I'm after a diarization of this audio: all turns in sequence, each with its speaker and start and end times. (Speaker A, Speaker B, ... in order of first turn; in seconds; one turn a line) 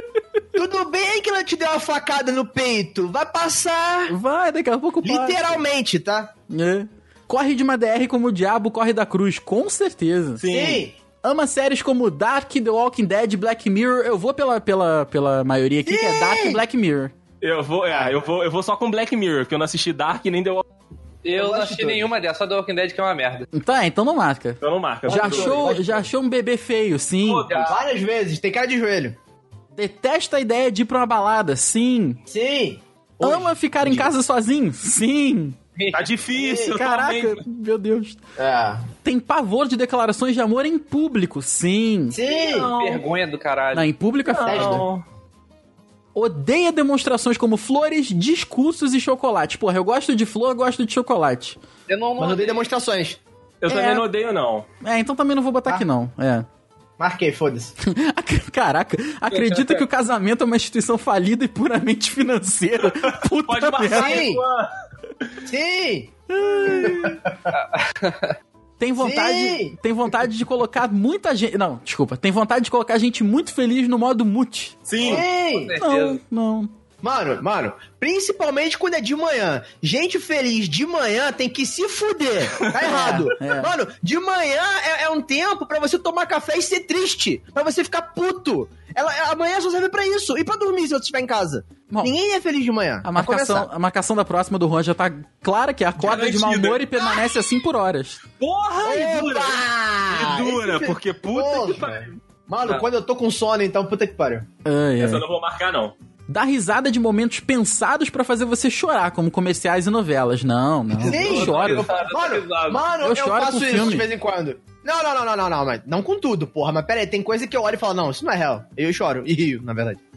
Speaker A: 0.5-4.1
Speaker B: 4.1-5.6
Speaker A: 5.0-6.3
Speaker B: 6.5-10.4
Speaker C: 10.4-10.8
Speaker A: 10.4-10.9
Speaker B: 11.2-17.1
Speaker A: 15.8-16.6
Speaker C: 17.4-20.6
Speaker A: 17.9-18.2
Speaker D: 21.2-23.5
Speaker A: 21.3-22.1
Speaker B: 23.5-27.5
Speaker C: 24.6-25.7
Speaker A: 25.1-26.1
Speaker C: 27.2-27.8
Speaker D: 27.4-27.8
Speaker A: 27.6-29.2
Speaker B: 29.7-32.2
Speaker A: 32.3-34.1
Speaker B: 33.2-35.6
Speaker D: 35.8-36.1
Speaker C: 35.9-37.4
Speaker A: 36.3-36.8
Speaker B: 36.6-38.2
Speaker A: 38.4-38.9
Speaker B: 39.0-42.2
Speaker A: 42.1-42.7
Speaker C: 42.2-43.0
Speaker D: 42.8-43.9
Speaker B: 43.7-44.8
Speaker C: 44.3-45.0
Speaker A: 44.5-44.9
Speaker B: 46.1-51.6
Speaker D: 51.9-52.6
Speaker A: 52.2-53.2
Speaker C: 53.6-54.6
Speaker B: 53.7-54.0
Speaker B: 54.8-56.5
Speaker A: 57.0-57.7
Speaker B: 57.8-64.2
Speaker D: 59.3-59.8
Speaker C: 63.0-64.7
Speaker A: 63.9-64.4
Speaker A: 65.4-67.5
Speaker B: 66.3-67.2
Speaker D: 67.5-68.3
Speaker B: 68.8-74.8
Speaker A: 69.0-69.8
Speaker C: 74.9-75.2
Speaker A: 75.0-75.8
Speaker D: 75.0-76.2
Speaker B: 75.8-76.7
Speaker A: 77.0-93.7
Speaker B: 82.8-83.7
Speaker B: 93.0-98.2
Speaker C: 96.0-97.2
Speaker C: 98.4-102.2
Speaker A: 98.8-104.5
Speaker B: 104.6-105.2
Speaker C: 105.0-105.9
Speaker B: 106.3-111.9
Speaker A: 111.0-120.0
Speaker D: 111.0-112.8
Speaker B: 113.0-114.1